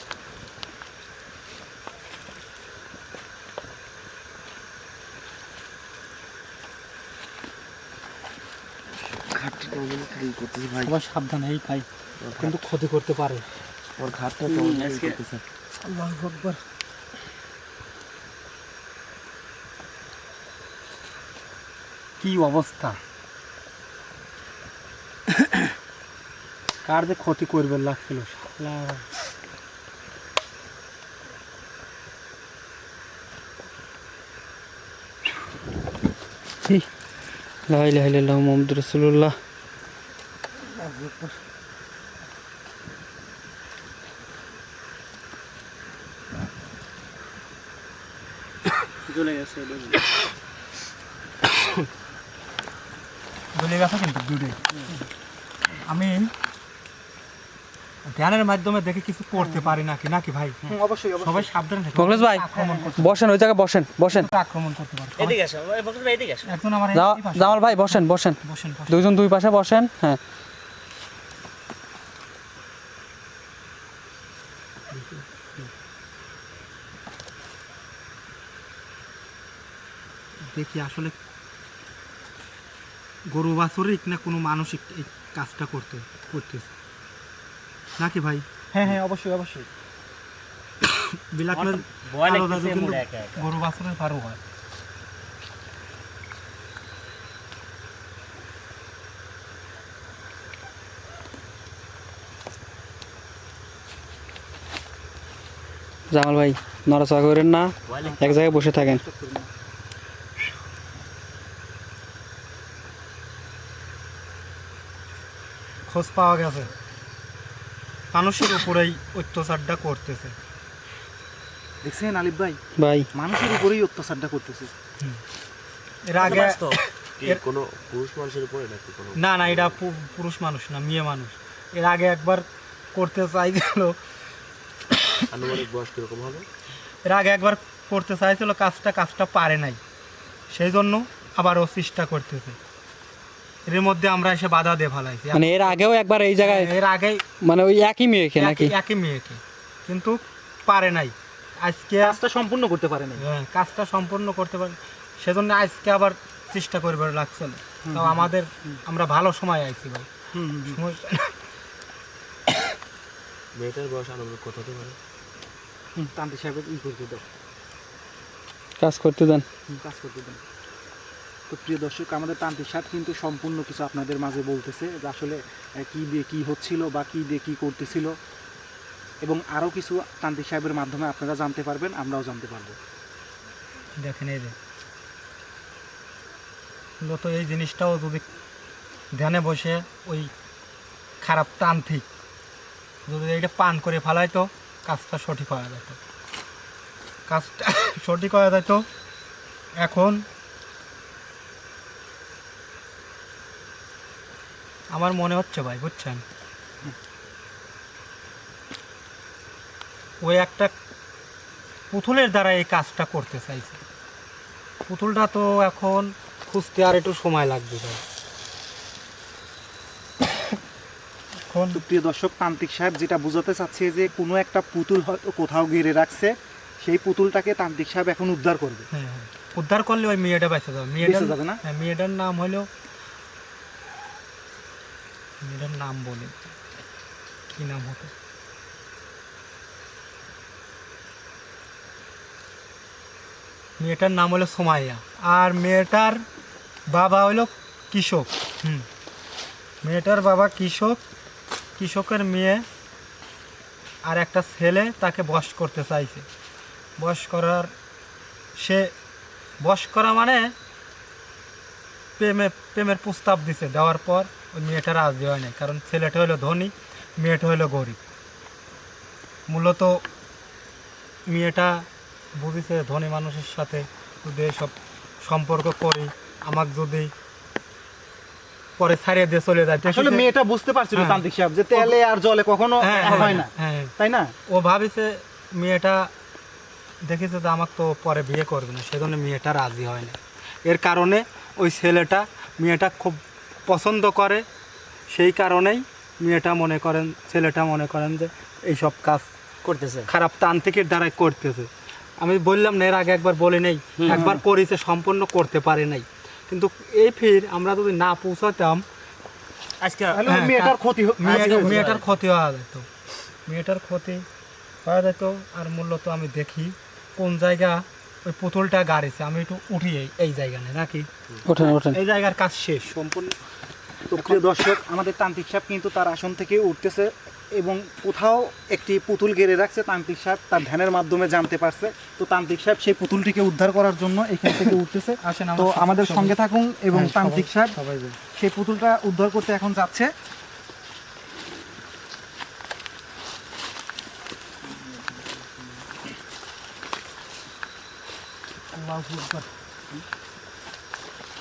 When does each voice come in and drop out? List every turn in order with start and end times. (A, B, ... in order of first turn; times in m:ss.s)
0:09.4-0:10.9 A
0:10.8-0:11.9 B
0:12.2-0:12.7 A
0:12.4-0:13.4 B
0:14.0-0:15.4 A
0:14.5-0:15.2 C
0:15.8-0:16.6 D
0:22.2-0:23.0 B
0:26.8-0:29.0 B
0:37.7-0:39.4 E
0:40.8-0:41.4 D
0:49.1-0:50.0 C
0:53.6-0:54.6 B
0:55.8-0:56.3 B
0:58.1-1:03.2 B
0:59.4-0:59.7 D
1:00.7-1:01.5 D
1:02.0-1:02.4 E
1:02.6-1:02.9 D
1:03.0-1:04.3 E
1:04.1-1:05.4 B
1:05.2-1:06.5 C
1:06.5-1:09.0 B
1:06.9-1:10.2 E
1:14.9-1:15.7 B
1:20.5-1:21.2 B
1:23.3-1:26.7 B
1:28.0-1:28.4 B
1:28.7-1:29.7 D
1:30.8-1:34.4 B
1:31.5-1:33.4 C
1:46.1-1:49.0 E
1:47.9-1:48.6 C
1:48.4-1:49.5 D
1:55.9-1:56.7 B
1:58.1-2:00.4 B
2:01.8-2:02.6 D
2:02.8-2:03.1 E
2:03.1-2:04.7 D
2:06.0-2:07.4 B
2:06.2-2:06.8 C
2:07.2-2:09.8 A
2:09.2-2:14.0 B
2:15.3-2:16.5 A
2:17.0-2:19.8 B
2:20.5-2:22.6 B
2:23.7-2:25.8 B
2:25.3-2:26.7 E
2:26.4-2:27.3 B
2:27.4-2:28.7 E
2:28.4-2:32.2 B
2:32.0-2:33.2 D
2:33.2-2:40.1 B
2:37.8-2:38.8 D
2:40.3-2:40.8 D
2:40.7-2:41.3 B
2:43.6-2:45.0 A
2:46.0-2:47.2 D
2:48.8-2:49.4 E
2:49.7-2:50.4 D
2:51.5-2:58.1 D
2:59.2-3:02.8 D
3:04.0-3:04.6 B
3:07.0-3:08.2 B
3:09.1-3:10.3 B
3:11.2-3:12.0 B
3:13.1-3:16.0 B
3:17.3-3:18.9 B
3:19.8-3:20.2 B
3:24.9-3:26.2 B
3:30.2-3:30.7 B
3:31.9-3:33.8 B
3:34.9-3:38.0 B
3:41.5-3:41.8 B
3:41.7-3:48.9 D
3:48.9-3:52.7 B
3:51.0-3:51.6 D
3:55.4-3:56.4 B
3:57.5-3:58.1 B
4:03.8-4:06.2 B
4:06.9-4:08.9 B
4:09.8-4:11.0 B
4:11.8-4:12.6 B
4:14.0-4:16.3 B
4:17.0-4:17.7 B
4:18.6-4:18.9 B
4:19.6-4:20.5 B
4:22.2-4:28.0 B
4:29.5-4:30.0 B
4:31.3-4:37.1 B
4:38.8-4:40.3 B
4:39.9-4:44.3 D
4:41.0-4:41.2 B
4:42.8-4:43.9 B
4:43.0-4:43.5 C
4:44.5-4:46.1 B
4:47.0-4:54.4 B
4:55.1-4:59.3 B
4:59.6-5:00.1 C
5:00.1-5:08.8 B
5:04.0-5:04.3 C
5:04.1-5:04.4 D
5:09.8-5:10.2 C
5:10.1-5:11.9 D
5:10.3-5:12.9 B
5:11.3-5:12.1 C
5:13.5-5:14.2 B
5:14.8-5:23.4 B
5:21.4-5:22.0 E
5:24.1-5:37.8 D
5:35.2-5:36.3 B
5:36.9-5:38.2 B
5:38.4-5:40.1 D
5:48.7-5:49.5 D